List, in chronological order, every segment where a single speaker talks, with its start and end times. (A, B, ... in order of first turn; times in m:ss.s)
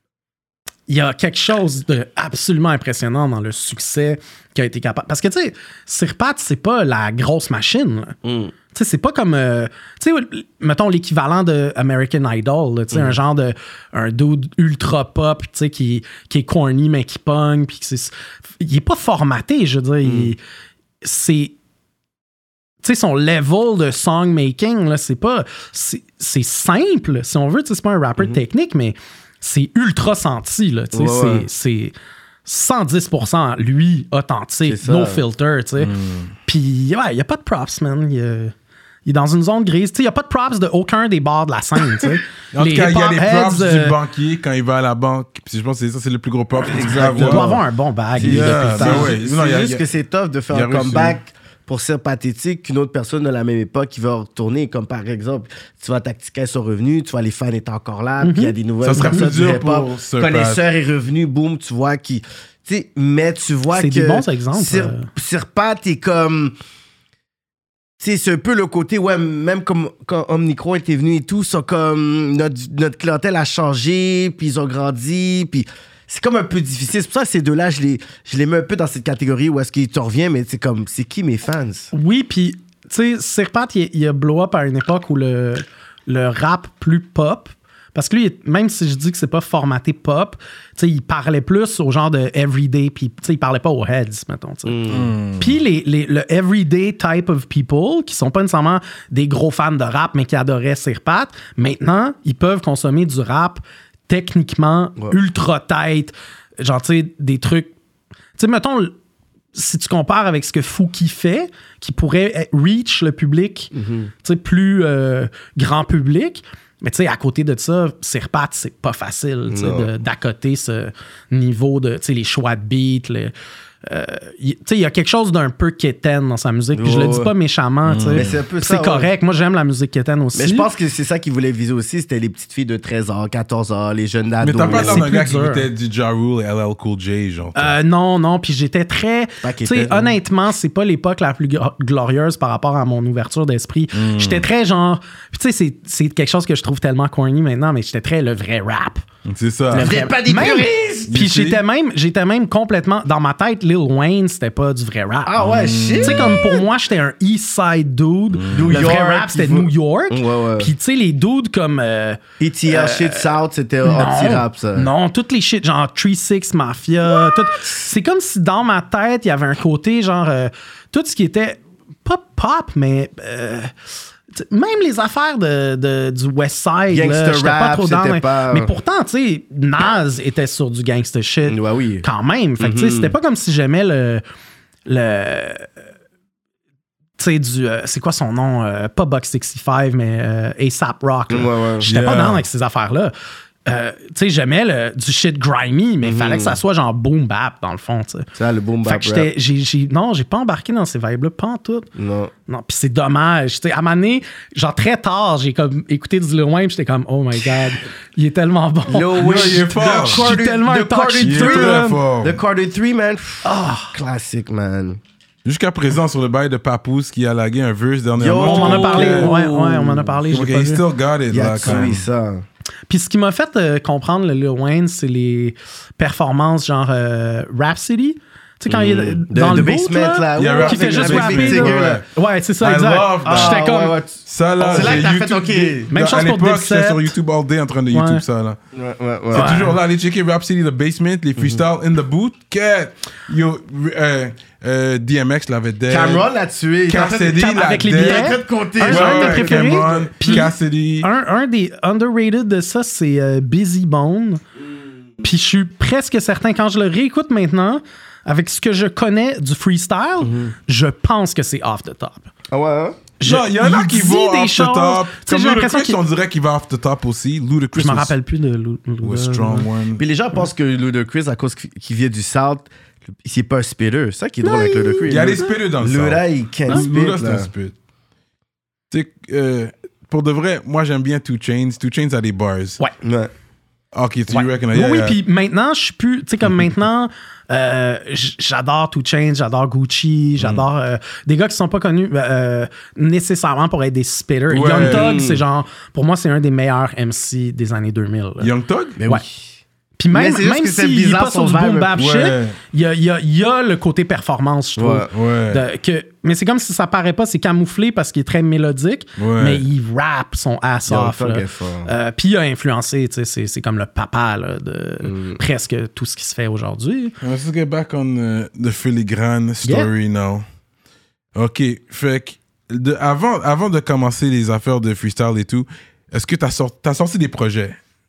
0:00.9-0:08.2 A
0:08.2-0:08.5 B
0:08.7-0:20.4 A
0:20.0-0:20.3 B
0:21.0-0:21.6 A
0:22.8-0:31.9 A
0:30.9-0:31.5 B
0:32.4-0:38.5 A
0:34.7-0:35.2 B
0:35.8-0:36.3 C
0:39.1-0:44.0 A
0:42.5-0:47.6 C
0:46.7-0:49.1 A
0:46.7-0:47.6 B
0:48.2-1:06.5 B
0:48.2-0:49.8 C
0:50.5-0:51.2 C
0:58.2-0:59.2 A
0:58.8-1:00.6 C
1:03.8-1:05.1 A
1:08.0-1:21.9 B
1:21.9-1:47.7 A
1:34.7-1:35.1 B
1:34.9-1:35.6 C
1:48.4-1:49.0 A
1:49.6-2:03.3 A
1:53.7-1:54.1 B
1:59.5-1:59.9 B
2:03.8-2:10.7 A
2:06.8-2:07.3 B
2:07.9-2:08.3 C
2:08.1-2:09.1 B
2:10.4-2:15.0 B
2:14.4-2:17.7 C
2:14.7-2:15.7 A
2:17.6-2:29.0 A
2:19.4-2:20.2 B
2:23.9-2:24.5 C
2:29.3-2:30.0 C
2:29.7-2:35.3 A
2:29.8-2:31.2 B
2:31.1-2:31.6 C
2:35.2-2:36.6 B
2:35.4-2:36.4 C
2:36.0-2:43.3 A
2:38.3-2:38.9 C
2:38.5-2:40.7 B
2:42.4-2:44.9 B
2:43.8-2:53.7 A
2:54.3-3:04.2 A
2:56.9-2:58.7 B
3:01.5-3:02.0 B
3:02.6-3:03.2 B
3:04.9-3:05.7 A
3:07.2-3:13.1 A
3:11.3-3:11.9 B
3:11.9-3:12.4 C
3:13.7-3:18.3 A
3:16.0-3:16.6 B
3:18.4-3:19.3 B
3:18.8-3:21.9 A
3:22.0-3:22.3 B
3:22.5-3:32.0 A
3:28.9-3:35.0 B
3:29.2-3:30.4 C
3:31.2-3:32.4 C
3:33.4-3:33.9 A
3:35.4-3:39.4 C
3:38.2-3:40.2 B
3:38.4-3:40.8 A
3:40.3-3:42.0 C
3:41.3-3:42.4 B
3:41.6-3:41.9 A
3:42.9-3:54.0 A
3:48.7-3:52.0 B
3:50.4-3:52.0 C
3:52.6-3:53.7 C
3:53.2-3:55.9 B
3:54.3-3:58.6 C
3:54.6-3:55.0 A
3:55.9-3:57.1 A
3:57.9-3:58.2 A
3:58.7-3:59.6 B
3:59.3-4:06.3 C
3:59.4-3:59.8 A
4:01.4-4:01.6 B
4:05.9-4:10.5 B
4:06.9-4:11.1 C
4:07.3-4:14.4 A
4:15.2-4:22.3 A
4:20.2-4:20.5 B
4:22.5-4:23.0 B
4:23.2-4:26.0 A
4:23.2-4:28.1 C
4:27.7-4:29.7 A
4:29.0-4:30.0 C
4:30.0-4:32.7 B
4:33.2-4:37.5 B
4:34.4-4:35.5 A
4:35.1-4:37.7 C
4:38.9-4:42.8 C
4:43.0-4:43.3 B
4:43.9-4:45.2 C
4:44.3-4:58.5 A
4:54.5-4:55.2 C
4:54.7-4:55.4 B
4:58.4-4:59.0 C
4:59.0-4:59.5 B
5:00.0-5:17.2 A
5:00.1-5:01.9 B
5:02.0-5:02.6 C
5:04.8-5:05.1 B
5:05.1-5:05.6 C
5:09.2-5:09.6 C
5:10.9-5:11.9 B
5:15.0-5:15.4 B
5:17.2-5:20.4 C
5:19.6-5:19.9 A
5:21.4-5:27.8 C